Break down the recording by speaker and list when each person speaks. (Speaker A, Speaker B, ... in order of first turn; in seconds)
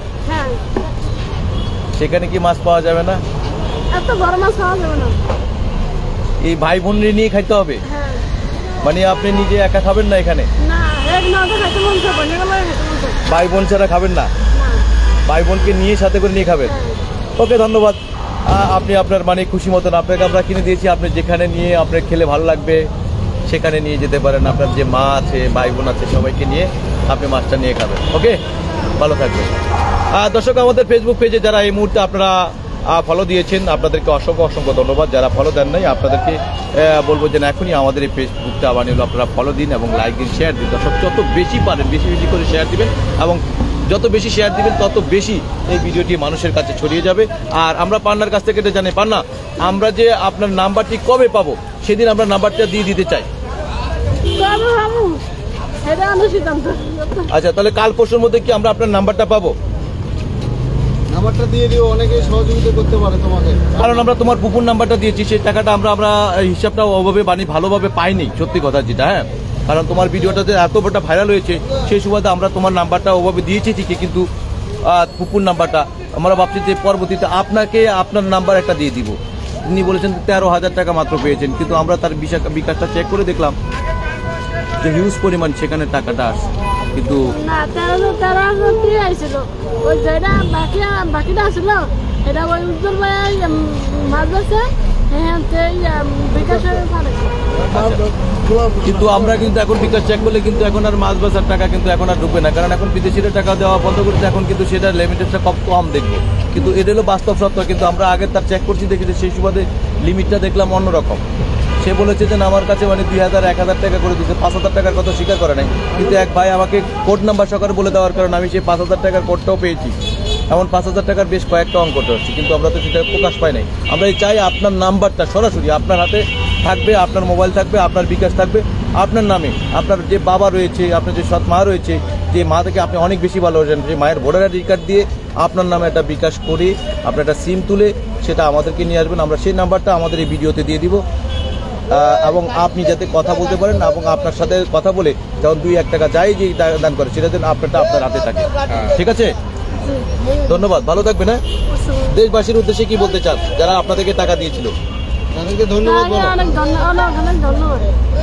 Speaker A: 0.3-0.6, 3.9-5.2, 7.8-8.2, 10.6-13.2, 14.5-14.8, 16.6-17.0, 54.3-55.2, 55.8-57.3, 87.3-97.3, 149.8-150.1, 151.7-152.1, 155.7-157.9
Speaker B: 1.9-3.2, 6.4-7.8, 8.8-10.5, 13.2-14.3, 15.3-16.7, 17.4-22.8, 23.5-28.4, 29.0-29.5, 30.1-53.3, 57.3-59.5, 63.8-74.2, 74.9-79.2, 79.7-83.5, 84.8-86.4, 86.9-87.2, 97.7-98.1, 98.8-111.2, 111.8-120.0, 120.5-141.0, 141.9-149.3, 150.4-151.4, 152.1-154.7
Speaker C: 61.2-63.6, 155.4-155.7